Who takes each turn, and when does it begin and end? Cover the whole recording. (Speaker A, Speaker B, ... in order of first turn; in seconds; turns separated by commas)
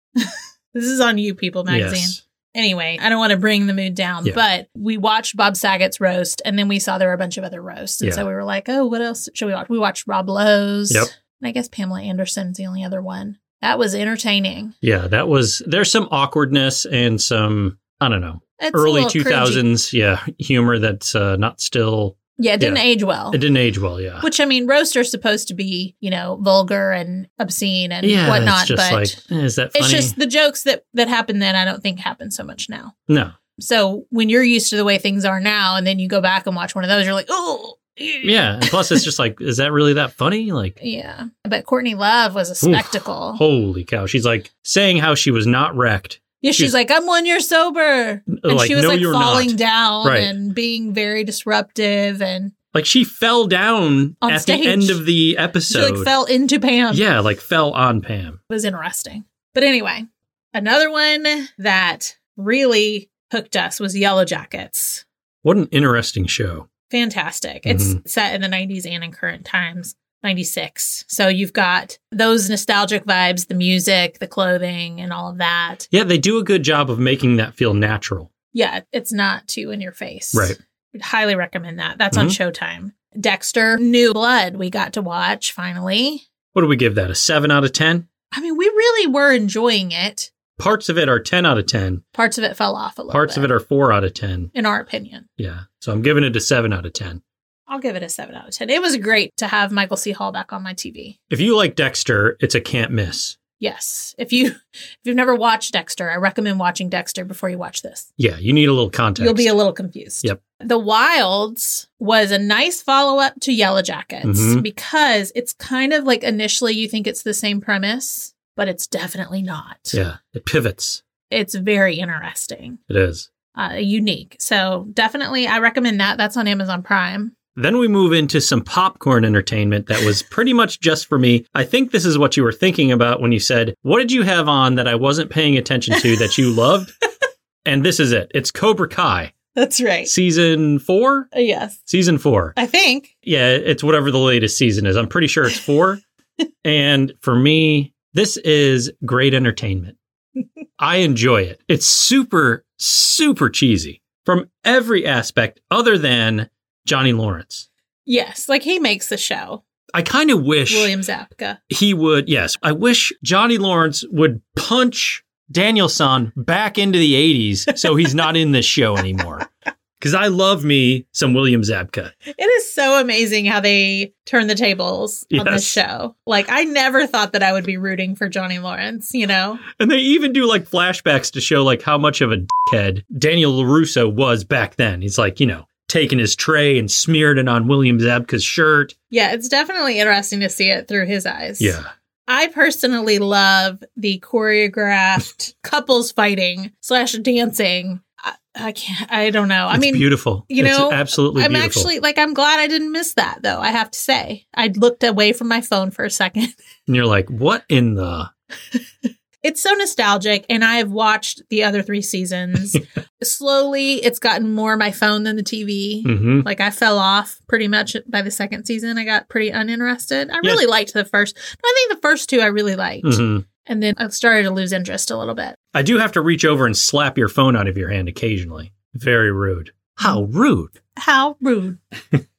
Speaker A: 0.2-14.8, Speaker B: 1.7-2.2, Speaker B: 14.8-24.3, Speaker A: 18.6-19.6, Speaker A: 22.4-23.4, Speaker A: 24.2-29.2, Speaker B: 28.0-30.1, Speaker A: 29.8-33.0, Speaker B: 33.1-33.4, Speaker A: 33.6-39.0, Speaker B: 38.2-40.8, Speaker A: 40.8-43.4, Speaker B: 42.6-46.7, Speaker A: 46.4-52.5, Speaker B: 48.3-50.3, Speaker B: 52.7-56.1, Speaker A: 54.2-55.0, Speaker A: 55.7-57.1, Speaker B: 56.9-58.4, Speaker A: 58.5-65.0, Speaker B: 65.4-66.7, Speaker A: 66.9-75.9, Speaker B: 67.7-68.0, Speaker B: 75.9-78.3, Speaker A: 78.5-86.3, Speaker B: 82.1-82.4, Speaker B: 86.5-88.1, Speaker A: 88.3-90.3, Speaker B: 90.6-92.0, Speaker A: 92.1-93.5, Speaker B: 93.1-94.5, Speaker A: 94.5-95.3, Speaker B: 95.4-97.2, Speaker A: 97.7-101.2, Speaker B: 101.3-103.4, Speaker A: 103.6-108.1, Speaker B: 108.2-109.5, Speaker A: 109.2-120.0, Speaker B: 114.2-114.7, Speaker B: 119.9-121.0, Speaker A: 121.3-122.8, Speaker B: 122.9-123.3, Speaker A: 123.5-127.3, Speaker B: 127.5-136.9, Speaker B: 137.7-139.3, Speaker A: 139.6-140.1, Speaker B: 140.1-141.3, Speaker A: 141.3-141.8, Speaker B: 141.9-142.6, Speaker A: 142.6-143.1, Speaker B: 143.2-146.0, Speaker B: 146.6-150.0, Speaker B: 150.8-157.7, Speaker A: 158.1-159.6, Speaker B: 159.9-160.9, Speaker A: 160.7-161.6, Speaker B: 161.7-169.5, Speaker B: 170.0-172.1, Speaker A: 172.3-179.6, Speaker B: 175.3-175.8, Speaker B: 179.7-188.9, Speaker A: 189.1-206.6, Speaker B: 191.6-191.9, Speaker B: 199.7-201.9, Speaker B: 206.9-208.3, Speaker A: 209.4-225.6, Speaker B: 216.1-216.5, Speaker B: 223.0-223.5, Speaker B: 225.7-230.8, Speaker A: 231.0-231.8